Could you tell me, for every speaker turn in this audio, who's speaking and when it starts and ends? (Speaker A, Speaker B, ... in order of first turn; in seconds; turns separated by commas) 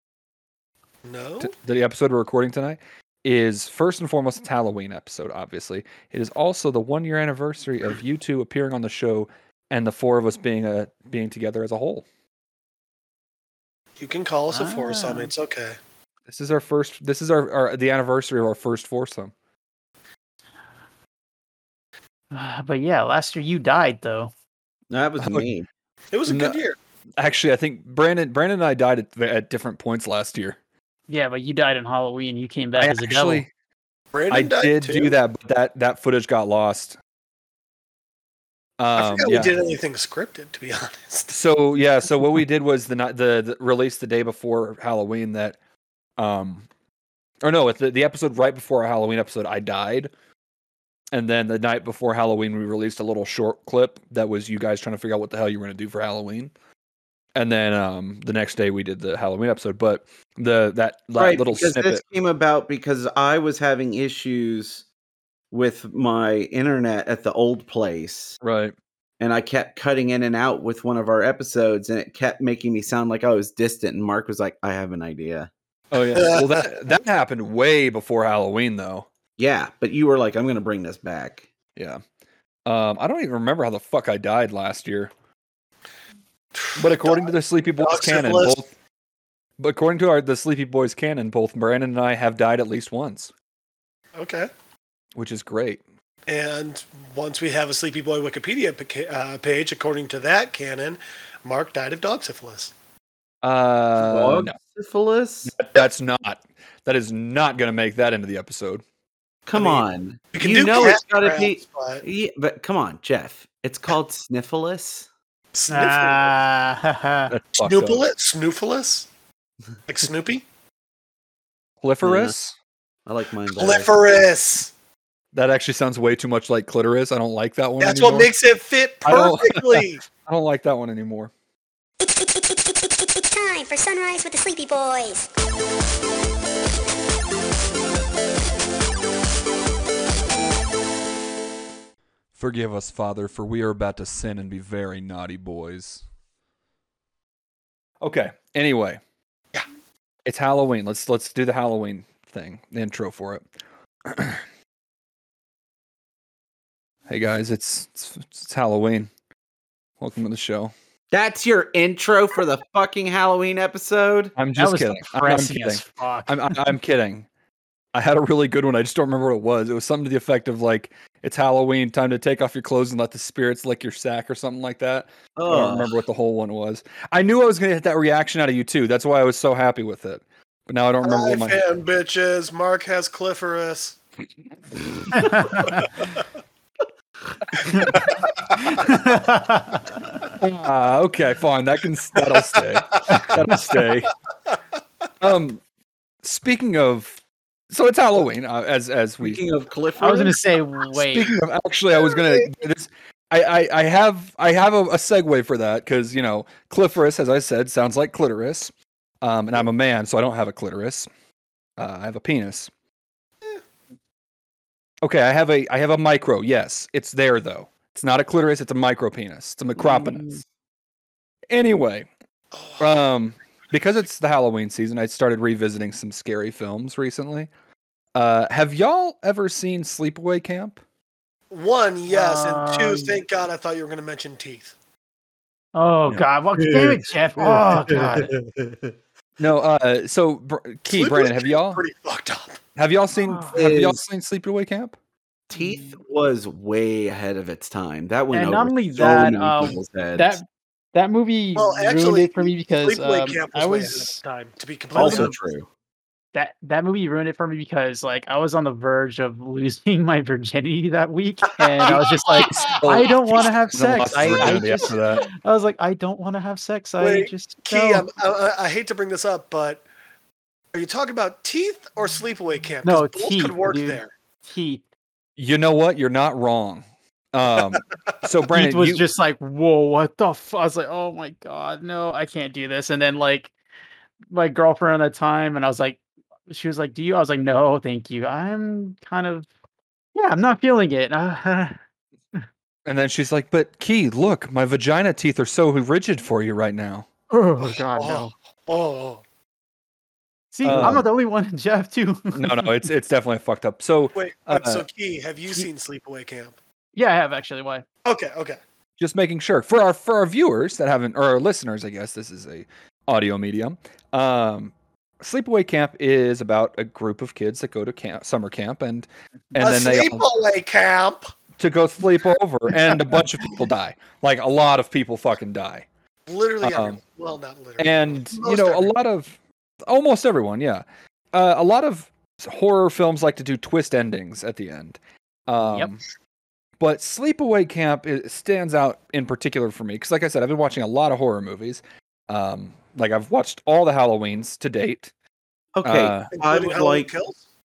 Speaker A: 1.1-1.5, Speaker B: 1.4-12.1, Speaker A: 14.0-15.8, Speaker C: 14.5-15.3, Speaker B: 16.3-19.3, Speaker C: 22.3-24.3, Speaker D: 24.9-25.7, Speaker B: 25.2-25.5, Speaker A: 26.1-26.8, Speaker B: 26.3-26.6, Speaker B: 27.2-30.6, Speaker C: 31.1-33.4, Speaker B: 32.8-33.5, Speaker A: 34.1-35.1, Speaker B: 34.3-37.0, Speaker B: 38.8-39.5, Speaker A: 39.0-41.3, Speaker B: 41.3-45.6, Speaker B: 46.2-46.7, Speaker B: 47.4-50.1, Speaker B: 51.1-56.5, Speaker B: 57.4-62.0, Speaker D: 61.2-64.8, Speaker D: 65.5-68.4, Speaker B: 68.4-68.7, Speaker D: 69.2-75.5, Speaker B: 75.9-79.1, Speaker A: 76.2-76.7, Speaker D: 79.4-81.5, Speaker B: 81.8-82.0, Speaker B: 82.7-85.1, Speaker A: 86.6-87.3, Speaker B: 86.8-88.7, Speaker A: 87.8-88.6, Speaker B: 89.6-93.3, Speaker A: 94.2-94.5, Speaker B: 95.2-95.8, Speaker A: 96.3-102.7, Speaker B: 103.4-104.6, Speaker D: 104.0-105.5, Speaker B: 105.5-108.8, Speaker D: 109.5-115.1, Speaker A: 109.5-112.0, Speaker A: 115.5-116.3, Speaker C: 115.7-117.3, Speaker B: 117.3-118.1, Speaker A: 117.6-119.1, Speaker A: 119.9-120.5, Speaker B: 121.8-122.5, Speaker D: 122.0-122.4, Speaker D: 123.1-123.9, Speaker A: 123.5-124.7, Speaker B: 125.3-128.3, Speaker A: 127.8-130.0, Speaker B: 129.1-131.3, Speaker E: 132.0-135.3, Speaker B: 142.4-146.0, Speaker B: 148.0-149.0, Speaker B: 150.2-153.4, Speaker B: 154.1-154.4, Speaker B: 157.1-159.1, Speaker B: 160.0-160.7, Speaker D: 161.1-164.4, Speaker B: 164.4-167.3, Speaker C: 164.6-166.4, Speaker B: 167.9-181.6, Speaker D: 175.4-176.0, Speaker A: 181.0-184.0, Speaker C: 185.2-185.9, Speaker A: 185.5-185.9, Speaker C: 187.7-188.0, Speaker A: 187.9-188.3, Speaker C: 188.6-190.3, Speaker B: 190.4-194.1, Speaker B: 195.2-195.6, Speaker B: 196.2-197.1, Speaker B: 197.7-199.4, Speaker D: 199.2-200.4, Speaker C: 200.0-201.4, Speaker B: 200.9-211.1, Speaker B: 211.8-212.7, Speaker B: 215.0-220.4, Speaker D: 219.8-220.4, Speaker B: 221.5-222.1, Speaker A: 222.5-222.9, Speaker B: 222.8-227.5, Speaker B: 228.2-230.8, Speaker A: 231.5-234.7, Speaker C: 232.1-233.2, Speaker C: 235.8-238.3, Speaker A: 237.5-238.7, Speaker B: 239.4-241.8, Speaker A: 240.9-242.6, Speaker B: 242.8-245.0, Speaker C: 243.2-243.6, Speaker D: 243.5-244.0, Speaker D: 245.5-250.4, Speaker C: 248.3-254.2, Speaker A: 251.6-255.3, Speaker D: 254.9-255.7, Speaker C: 255.0-255.3, Speaker C: 256.3-268.1, Speaker A: 261.6-263.5, Speaker B: 262.3-263.1, Speaker B: 263.7-265.3, Speaker A: 267.0-269.8, Speaker A: 270.7-274.1, Speaker C: 272.8-274.8, Speaker B: 275.4-279.0, Speaker C: 278.5-283.5, Speaker C: 284.3-289.5, Speaker C: 290.1-291.8, Speaker B: 292.9-297.1, Speaker C: 297.3-298.3, Speaker A: 298.0-299.2, Speaker C: 300.5-302.7, Speaker B: 300.6-301.1, Speaker B: 302.3-304.9, Speaker A: 304.1-306.6, Speaker C: 306.9-307.9, Speaker A: 308.1-308.6, Speaker B: 309.0-320.2, Speaker A: 319.6-321.3, Speaker B: 321.6-325.9, Speaker A: 326.3-328.9, Speaker B: 326.6-327.0, Speaker B: 327.8-336.0, Speaker C: 335.6-335.9, Speaker B: 336.8-345.1, Speaker D: 345.8-347.1, Speaker B: 345.8-346.3, Speaker A: 346.3-347.4